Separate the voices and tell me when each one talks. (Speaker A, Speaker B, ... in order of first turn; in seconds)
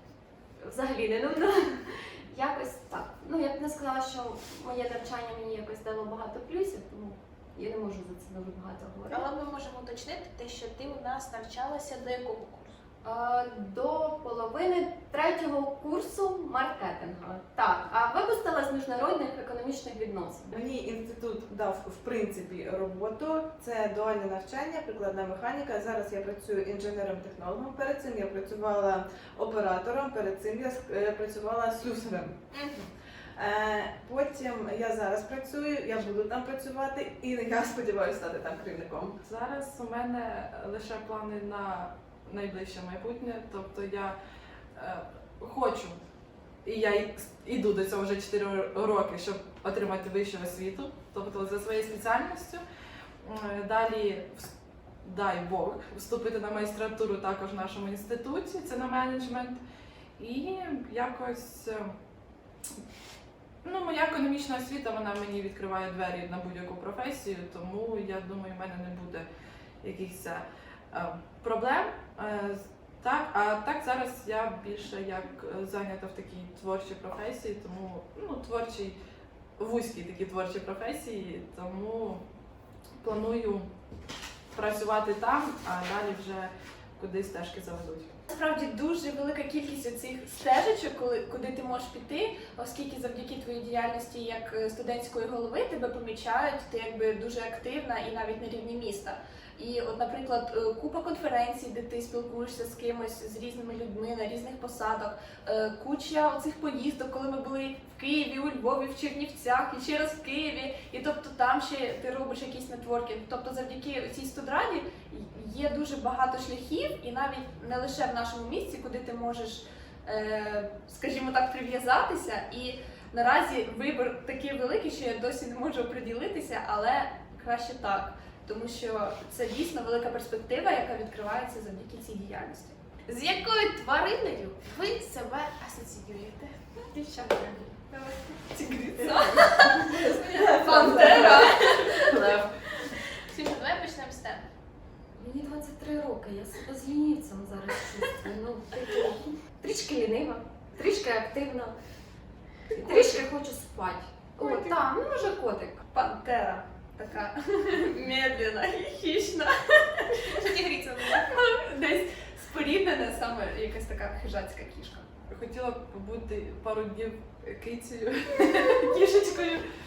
Speaker A: 0.6-9.3, 13.0-20.5, 145.2-151.8, 152.7-155.8
Speaker B: 9.1-12.8, 32.5-32.9, 133.1-137.8, 139.7-141.9, 143.2-144.5, 160.1-161.3
Speaker C: 20.5-32.4, 33.4-39.2, 139.8-141.8
Speaker D: 39.2-44.2, 44.8-46.0, 46.6-52.6, 53.2-54.5, 55.0-59.6, 60.2-61.9, 63.6-69.3, 69.8-79.0, 79.6-82.2, 83.0-83.7, 84.5-88.1, 141.1-141.4, 141.9-142.5, 165.3-169.6
Speaker E: 88.3-132.8, 137.9-142.2, 152.8-153.1, 154.4-154.8, 155.8-160.2, 161.2-165.0